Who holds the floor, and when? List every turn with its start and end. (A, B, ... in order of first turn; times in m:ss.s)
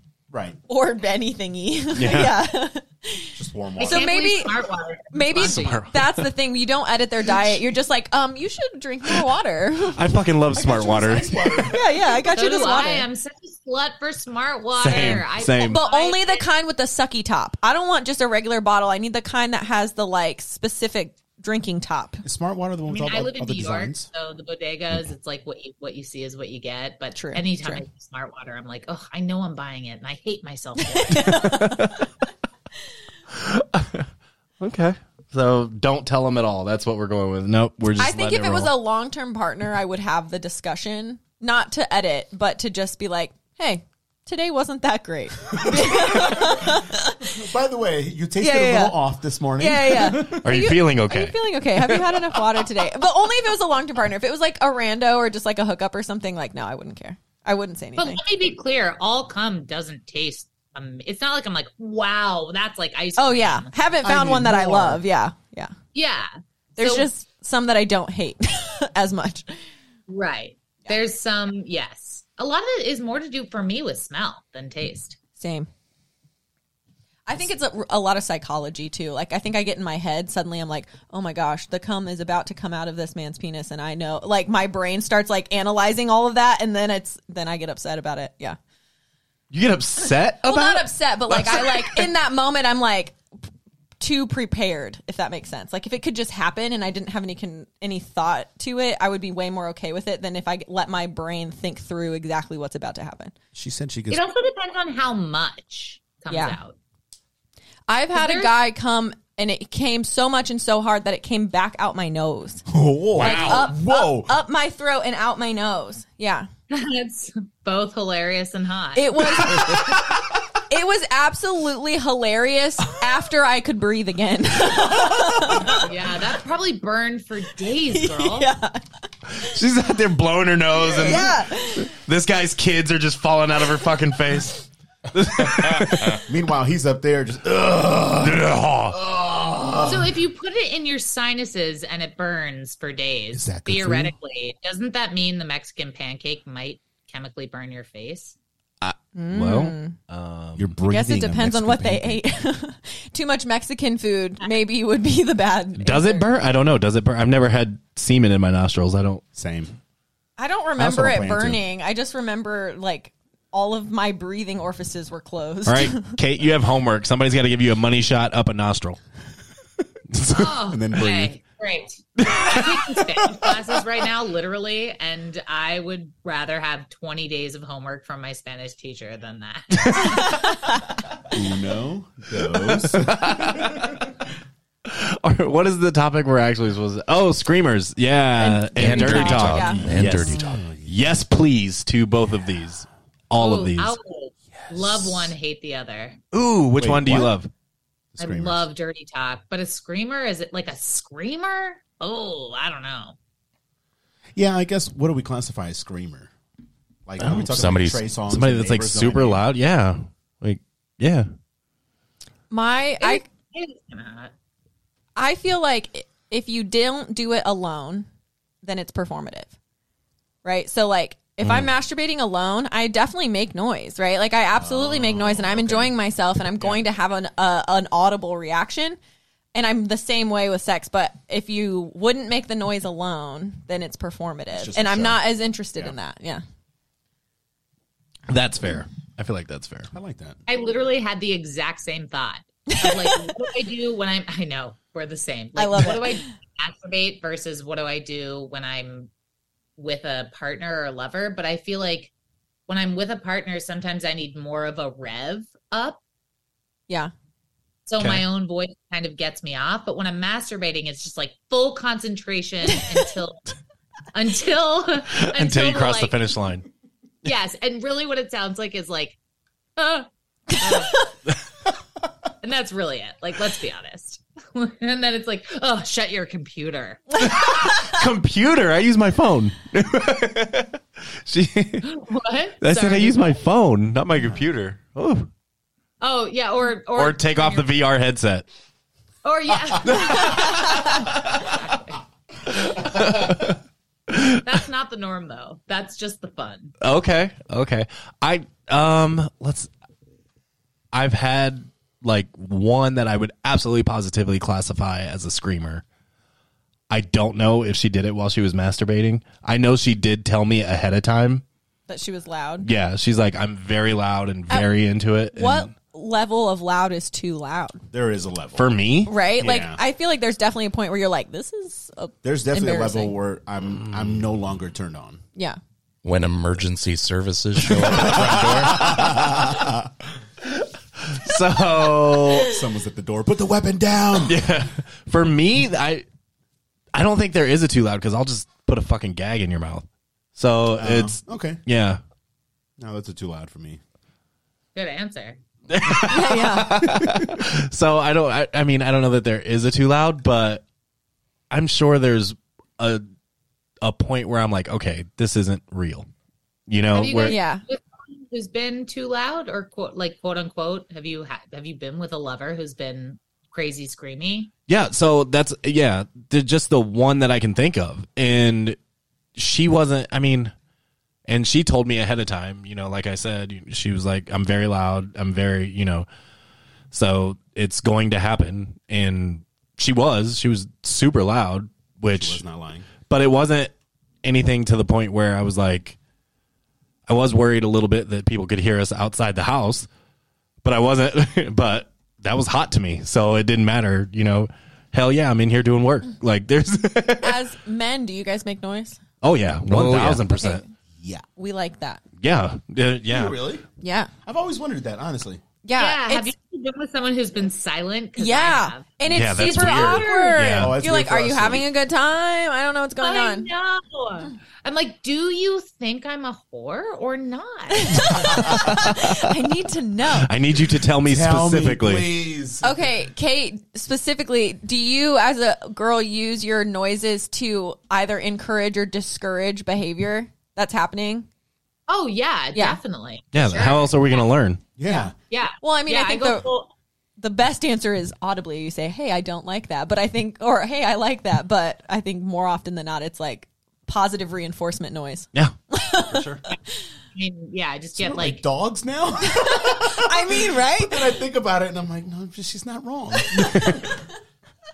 0:00.3-0:00.6 A
0:00.7-0:10.0 B
0:01.9-0:02.4 C
0:03.3-0:04.2 A
0:03.8-0:05.8 D
0:05.3-0:06.3 C
0:09.9-0:11.6 C
0:10.5-0:12.3 A
0:11.6-0:13.0 B
0:12.3-0:16.5 D
0:14.8-0:15.8 C
0:15.6-0:22.2 B
0:22.2-0:24.1 A
0:22.9-0:31.5 D
0:27.2-0:27.8 B
0:30.9-0:31.9 B
0:31.2-0:32.1 C
0:33.3-0:34.1 C
0:34.6-0:38.7 C
0:38.0-0:47.3 B
0:45.5-0:50.4 A
0:48.4-0:49.0 B
0:49.6-0:58.2 B
0:50.2-0:52.2 C
0:58.0-1:03.7 D
1:03.2-1:05.7 B
1:04.0-1:05.0 A
1:05.9-1:07.1 D
1:06.8-1:09.5 B
1:10.1-1:15.2 D
1:15.4-1:15.7 B
1:17.2-1:28.6 B
1:29.5-1:32.1 C
1:30.4-1:33.2 B
1:34.0-1:43.3 B
1:43.5-1:44.2 A
1:44.1-1:46.7 D
1:46.3-1:46.6 B
1:47.9-1:52.6 B
1:48.1-1:48.5 D
1:52.7-1:54.4 A
1:53.2-1:56.5 B
1:53.2-1:53.5 E
1:56.7-1:59.7 D
1:59.0-2:00.1 B
2:00.7-2:05.8 B
2:05.7-2:08.5 D
2:07.9-2:08.8 B
2:09.3-2:16.2 C
2:10.9-2:11.9 B
2:16.3-2:20.2 A
2:18.2-2:19.0 C
2:19.8-2:28.4 D
2:23.3-2:24.1 A
2:28.8-2:30.7 C
2:29.1-2:30.0 B
2:30.6-2:32.2 A
2:30.9-2:36.3 B
2:35.8-2:39.2 C
2:39.3-2:39.7 A
2:40.4-2:46.2 B
2:40.8-2:41.6 A
2:45.6-2:49.0 C
2:50.1-2:50.6 C
2:50.3-3:00.4 D
2:50.6-2:51.3 A
2:52.2-2:53.0 C
2:59.7-3:00.3 C
3:01.3-3:03.9 A
3:02.6-3:04.1 C
3:04.9-3:14.0 C
3:08.4-3:09.9 B
3:08.7-3:10.6 E
3:09.8-3:10.9 A
3:13.4-3:16.2 D
3:16.3-3:17.5 C
3:16.8-3:17.3 A
3:18.1-3:18.7 A
3:18.2-3:23.2 D
3:24.4-3:26.3 A
3:27.0-3:29.4 A
3:27.2-3:27.6 C
3:27.5-3:28.0 E
3:28.3-3:31.3 C
3:32.5-3:33.2 B
3:33.0-3:34.3 D
3:35.2-3:38.1 B
3:38.6-3:39.5 B
3:40.4-3:49.0 B
3:41.4-3:41.7 C
3:44.5-3:46.8 A
3:49.5-3:56.4 B
3:54.5-3:55.2 A
3:58.3-3:59.9 C
3:59.9-4:00.4 A
4:00.5-4:09.1 D
4:02.7-4:03.4 B
4:05.6-4:06.3 B
4:09.8-4:12.1 D
4:12.7-4:16.0 D
4:17.8-4:23.4 D
4:18.0-4:18.2 C
4:24.1-4:26.2 D
4:25.1-4:26.6 C
4:27.2-4:29.2 D
4:29.8-4:31.1 D
4:32.4-4:37.3 D
4:37.2-4:41.9 C
4:37.3-4:37.8 B
4:41.8-4:43.3 D
4:42.6-4:45.3 C
4:46.0-4:47.7 D
4:47.0-4:48.5 C
4:49.2-4:52.0 D
4:49.8-4:51.7 C
4:52.6-4:54.4 C
4:54.4-4:56.7 D
4:56.8-4:59.7 C
5:00.9-5:05.8 C
5:06.9-5:11.4 C
5:11.9-5:12.7 B
5:12.6-5:15.7 C
5:15.3-5:17.8 B
5:17.9-5:18.7 A
5:18.6-5:19.1 C
5:19.1-5:23.1 B
5:19.4-5:19.8 A
5:22.2-5:25.2 A
5:26.0-5:29.0 E
5:28.0-5:29.9 A
5:28.7-5:29.3 C
5:30.4-5:32.5 C
5:32.3-5:34.4 A
5:34.2-5:36.0 C
5:36.9-5:42.0 C
5:40.8-5:41.6 A
5:42.8-5:43.8 A
5:44.7-5:45.4 D
5:45.7-5:50.6 C
5:46.0-5:46.8 B
5:51.5-5:53.0 C
5:53.8-5:56.1 C
5:56.7-5:57.4 C
5:56.9-6:04.5 D
5:57.2-5:57.6 B
6:04.7-6:08.8 C
6:09.4-6:10.5 C
6:11.3-6:16.1 C
6:16.9-6:22.4 C
6:22.1-6:22.9 A
6:23.1-6:23.7 C
6:24.2-6:26.0 C
6:27.1-6:29.9 C
6:30.6-6:37.4 C
6:37.2-6:39.0 B
6:39.2-6:40.6 C
6:39.7-6:40.2 E
6:40.2-6:40.7 B
6:41.0-6:41.2 A
6:41.4-6:42.0 B
6:42.2-6:43.4 C
6:43.1-6:43.6 A
6:43.8-6:44.1 B
6:44.2-6:45.4 A
6:45.6-6:46.3 B
6:45.8-6:50.5 D
6:48.2-6:53.5 B
6:49.1-6:50.8 C
6:50.5-6:51.7 A
6:53.0-6:58.3 D
6:57.7-7:00.3 B
6:58.1-6:58.6 A
6:58.3-6:59.3 C
7:00.1-7:02.1 C
7:01.0-7:03.0 A
7:02.6-7:11.3 B
7:11.9-7:14.3 D
7:13.3-7:14.6 C
7:14.8-7:15.1 A
7:14.9-7:16.5 B
7:15.3-7:16.7 D
7:17.2-7:26.2 B
7:26.0-7:26.4 C
7:27.1-7:28.4 D
7:27.9-7:33.9 A
7:29.2-7:31.1 B
7:33.4-7:33.8 C